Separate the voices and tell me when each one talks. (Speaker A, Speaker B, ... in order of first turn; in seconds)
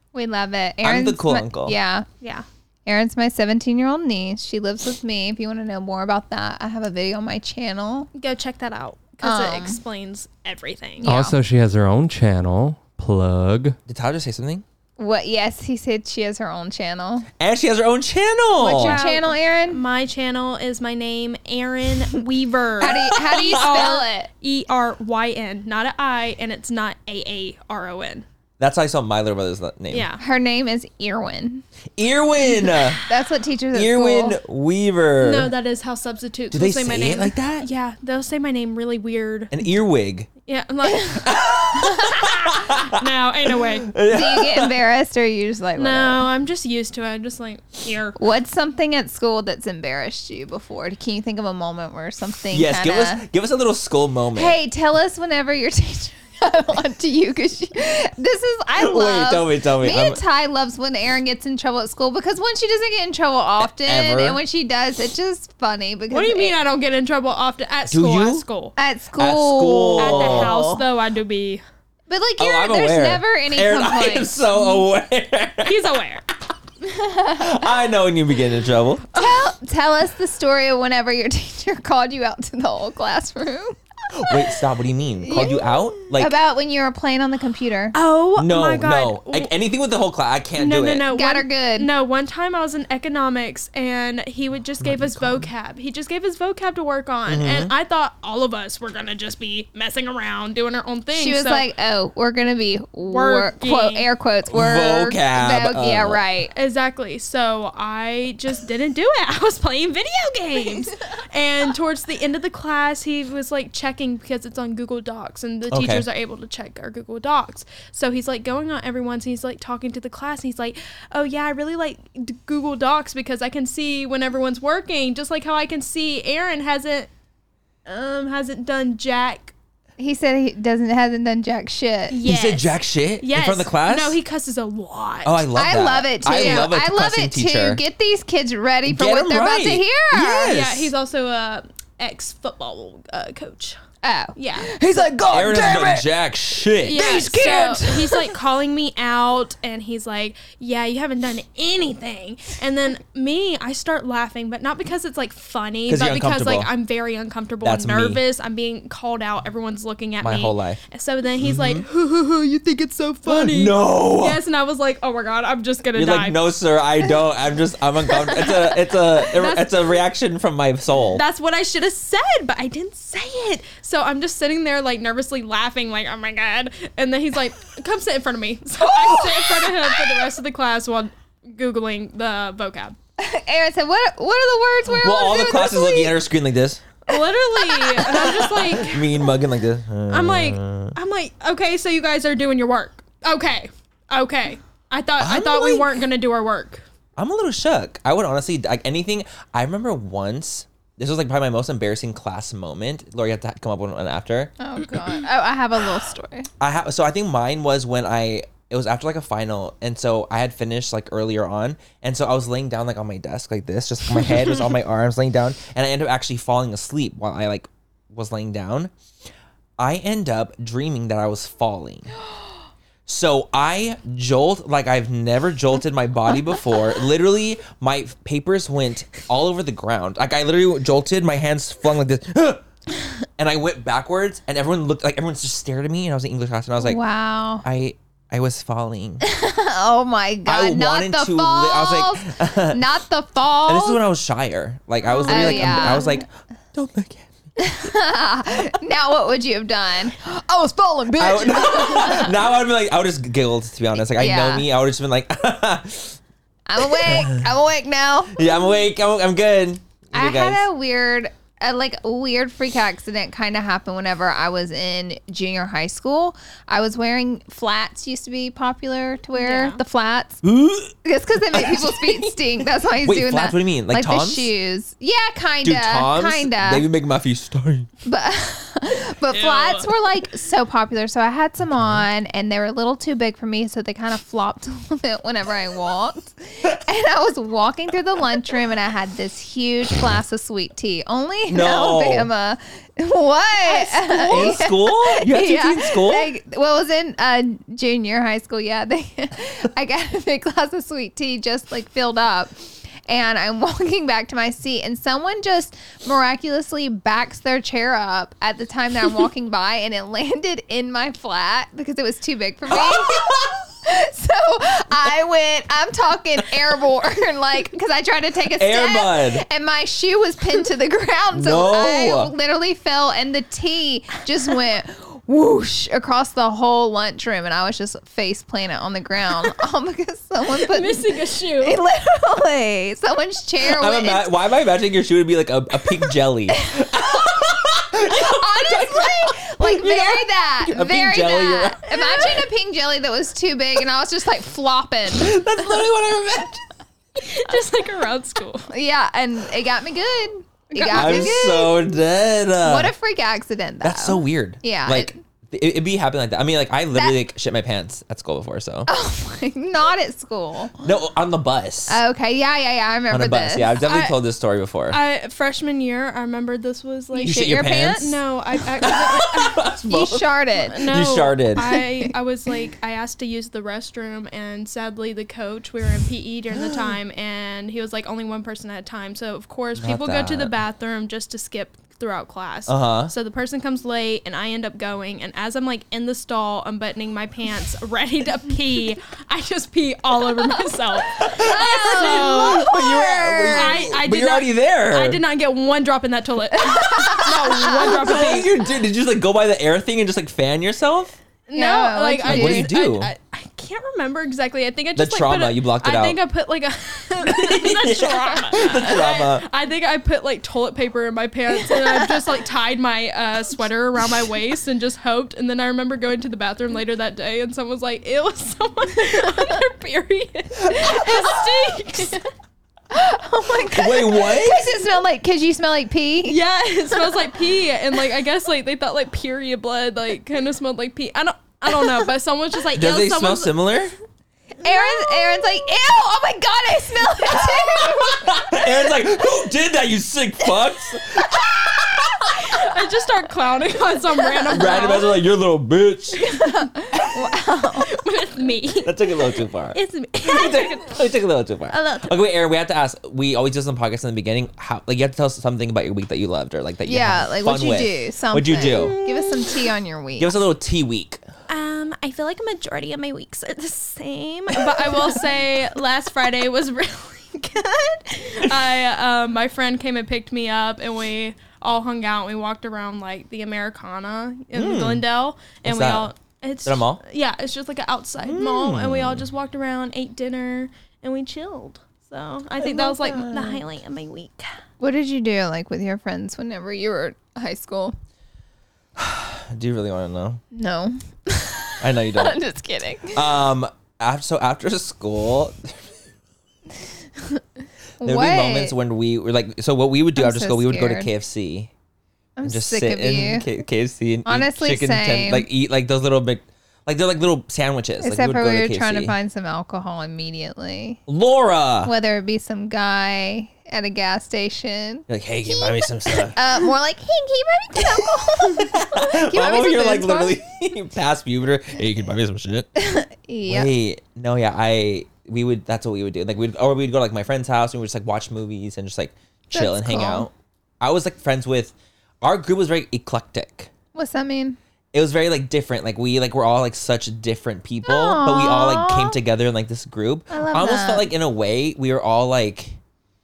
Speaker A: 0.1-2.1, 2.9-8.1, 9.2-9.8, 11.0-11.4, 15.0-17.3, 18.6-19.8, 22.8-24.3, 30.2-31.6, 33.1-34.4, 44.1-46.2, 48.2-53.2, 54.4-66.6, 68.8-70.8, 72.1-74.5, 76.8-77.5, 79.2-83.8, 85.2-88.0, 91.1-91.9, 101.2-106.5, 130.0-132.2, 135.6-140.6, 144.0-146.1, 146.9-148.3, 183.2-186.2, 204.6-206.5, 236.8-237.7, 239.2-244.0, 245.3-246.2, 247.6-252.3, 254.0-254.7, 256.7-258.6, 260.1-270.4, 271.0-276.9, 278.1-331.0, 331.6-334.4, 336.5-337.3, 338.1-345.4, 348.7-351.9, 352.6-355.2, 358.9-360.9, 361.9-363.7, 367.2-368.2, 369.9-370.9, 371.6-372.1, 391.4-393.9, 396.7-398.4, 401.6-402.7, 422.9-426.4, 434.6-438.7, 446.3-447.9, 456.9-460.4, 484.8-488.0, 490.5-493.2, 498.0-498.8, 500.2-501.1, 502.4-503.5, 504.3-505.5, 508.0-511.0, 511.9-520.4, 522.8-523.7, 529.5-530.3, 534.0-534.6, 537.9-539.2, 540.3-541.1
Speaker B: 0.8-1.8, 13.9-14.6, 17.4-19.0, 23.1-23.9, 28.6-30.1, 32.0-33.0, 33.7-35.5, 36.5-37.7, 39.5-40.3, 41.2-42.9, 43.5-44.7, 52.5-54.6, 58.8-60.2, 63.6-64.4, 67.9-68.4, 69.2-70.5, 72.4-75.8, 77.4-79.0, 84.1-86.3, 88.4-91.1, 94.8-95.5, 97.3-97.7, 104.5-106.2, 115.7-116.0, 132.2-134.2, 135.2-137.8, 138.9-140.9, 145.3-147.6, 155.9-156.7, 157.6-158.2, 160.2-160.8, 161.4-161.9, 163.3-164.4, 165.9-171.2, 184.9-187.0, 187.9-191.0, 195.2-195.9, 197.2-204.5, 206.6-218.9, 219.8-222.1, 223.1-232.6, 233.4-237.0, 237.6-239.2, 240.5-242.8, 243.7-247.3, 251.2-256.2, 256.8-257.5, 258.3-260.7, 270.4-271.0, 271.5-272.4, 273.0-274.5, 275.6-277.9, 281.8-282.1, 291.5-292.3, 293.8-296.3, 312.7-313.5, 318.5-319.4, 321.4-322.3, 333.6-341.8, 345.1-346.6, 350.9-352.9, 353.8-358.9, 360.8-362.0, 363.1-365.0, 367.2-368.1, 368.8-370.3, 370.9-371.7, 379.8-380.6, 382.7-383.1, 391.2-395.2, 396.8-401.1, 402.2-403.1, 405.0-406.2, 407.2-409.5, 420.7-421.5, 423.7-424.8, 432.7-433.9, 437.3-442.3, 444.5-446.2, 448.8-459.0, 460.2-461.2, 474.5-475.1, 475.6-476.1, 476.6-477.0, 478.2-479.3, 482.6-483.6, 489.0-490.4, 491.8-492.4, 493.1-496.0, 498.0-501.7, 502.4-509.1, 511.1-511.9, 515.1-516.4, 517.8-522.7, 523.5-533.7, 534.9-542.8
Speaker C: 2.2-2.5, 8.1-11.1, 18.7-28.3, 29.9-30.2, 35.2-39.7, 40.5-41.3, 42.8-43.9, 45.8-48.2, 66.1-68.7, 70.0-71.6, 75.6-76.2, 79.1-79.5, 87.9-89.5, 90.6-101.7, 103.1-104.1, 106.6-127.1, 127.9-129.5, 132.1-132.7, 133.2-135.5, 136.2-136.7, 140.4-143.8, 144.4-144.7, 146.9-166.5, 168.2-170.0, 171.1-183.0, 187.1-189.1, 190.1-196.8, 245.2-246.1, 269.4-269.8, 279.4-279.8, 330.6-331.8, 341.9-342.4, 347.2-348.7, 350.8-351.3, 363.8-364.2, 364.9-369.7, 370.6-392.7, 393.5-398.5, 401.5-422.2, 426.3-433.7, 442.5-445.1, 447.9-450.9, 451.7-452.2, 458.7-459.6, 461.5-484.6
Speaker D: 11.0-13.8